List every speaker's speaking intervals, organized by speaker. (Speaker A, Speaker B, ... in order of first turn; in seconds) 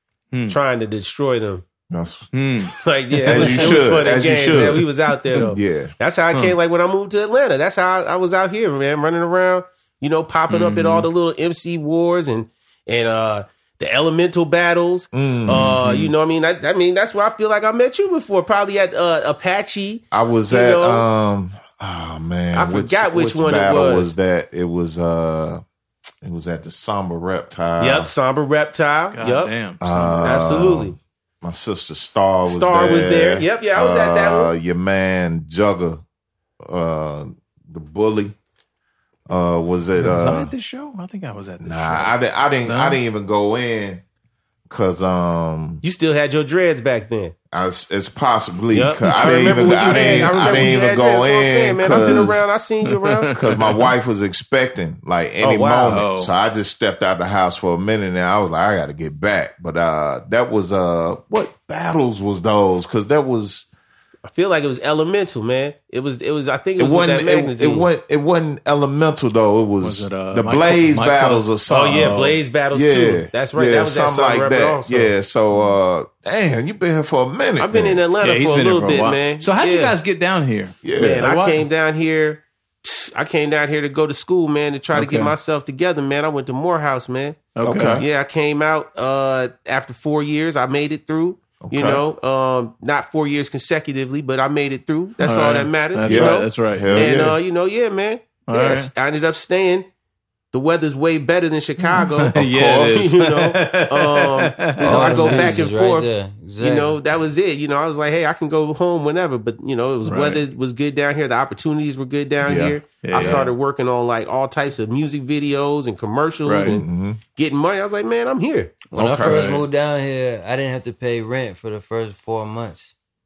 Speaker A: 0.3-0.6, 2.3-3.8, 10.5-11.1, 29.1-30.6, 40.0-42.1, 42.6-43.0, 49.1-50.8, 51.9-52.3, 52.8-53.9, 55.9-56.3, 69.8-72.4, 78.2-81.6, 84.9-85.3, 87.5-88.0, 95.2-97.3, 98.5-98.9, 101.9-105.6, 110.0-110.4, 113.0-113.5, 116.4-116.8, 119.2-119.7
Speaker B: 0.5-1.6, 2.6-21.0, 22.5-24.1, 27.8-29.5, 30.2-30.9, 32.5-34.5, 45.8-47.3, 48.7-53.4, 55.4-56.0, 64.3-67.9, 71.7-75.1, 77.6-80.0, 81.0-99.9, 100.5-106.1, 106.6-118.8
Speaker C: 1.9-2.3, 3.2-4.9, 5.4-5.9, 15.1-16.1, 20.1-25.6, 26.2-28.1, 29.8-36.0, 36.6-38.4, 39.3-40.5, 41.6-44.0, 44.7-45.8, 47.5-52.4, 53.3-63.7, 66.8-78.0, 80.8-81.2, 87.6-88.0, 91.6-92.0, 96.0-97.4, 102.3-103.1, 112.4-113.5, 116.6-117.2, 118.9-119.4
Speaker D: 104.8-106.9, 118.9-122.9